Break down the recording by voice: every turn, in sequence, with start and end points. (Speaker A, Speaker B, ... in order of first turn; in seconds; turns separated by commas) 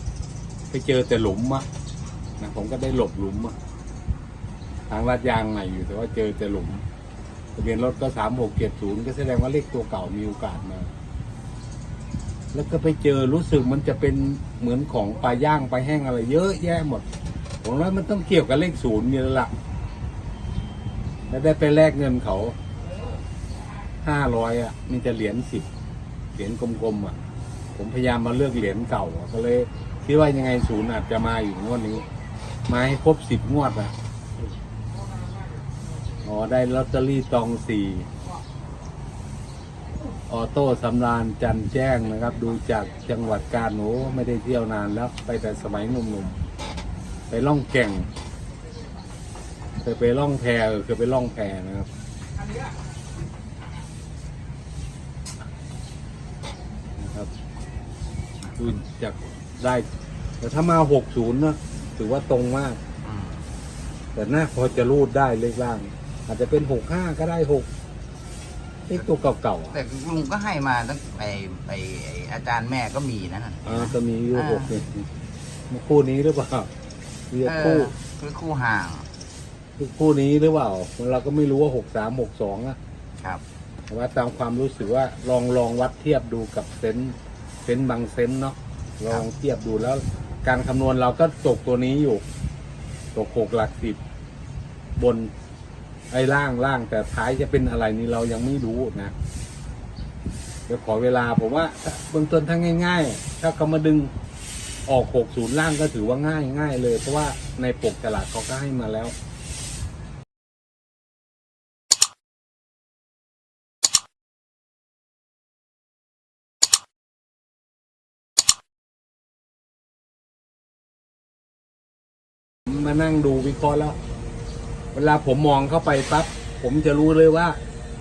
Speaker A: 0.7-1.7, Speaker A: 2.4-3.5, Speaker A: 4.9-6.8, Speaker A: 7.6-10.9, Speaker A: 12.5-17.1, Speaker A: 17.6-19.5, Speaker A: 21.3-22.6, Speaker A: 24.0-25.7, Speaker A: 26.4-27.1, Speaker A: 27.8-32.0, Speaker A: 32.7-33.9, Speaker A: 36.2-38.1, Speaker A: 40.3-46.4, Speaker A: 47.3-48.1, Speaker A: 49.8-51.9, Speaker A: 57.0-57.3, Speaker A: 58.5-59.9, Speaker A: 60.4-62.8, Speaker B: 63.0-63.5, Speaker A: 64.2-67.7, Speaker A: 68.9-69.8, Speaker B: 69.7-74.7, Speaker A: 73.7-75.1, Speaker A: 75.7-76.7, Speaker A: 77.3-77.9, Speaker B: 77.4-79.1, Speaker A: 79.8-82.8, Speaker A: 83.9-92.2, Speaker A: 93.2-94.0, Speaker A: 95.0-95.3, Speaker A: 96.1-99.1, Speaker A: 100.7-104.1, Speaker A: 104.9-109.1, Speaker A: 122.7-124.0, Speaker A: 124.9-127.6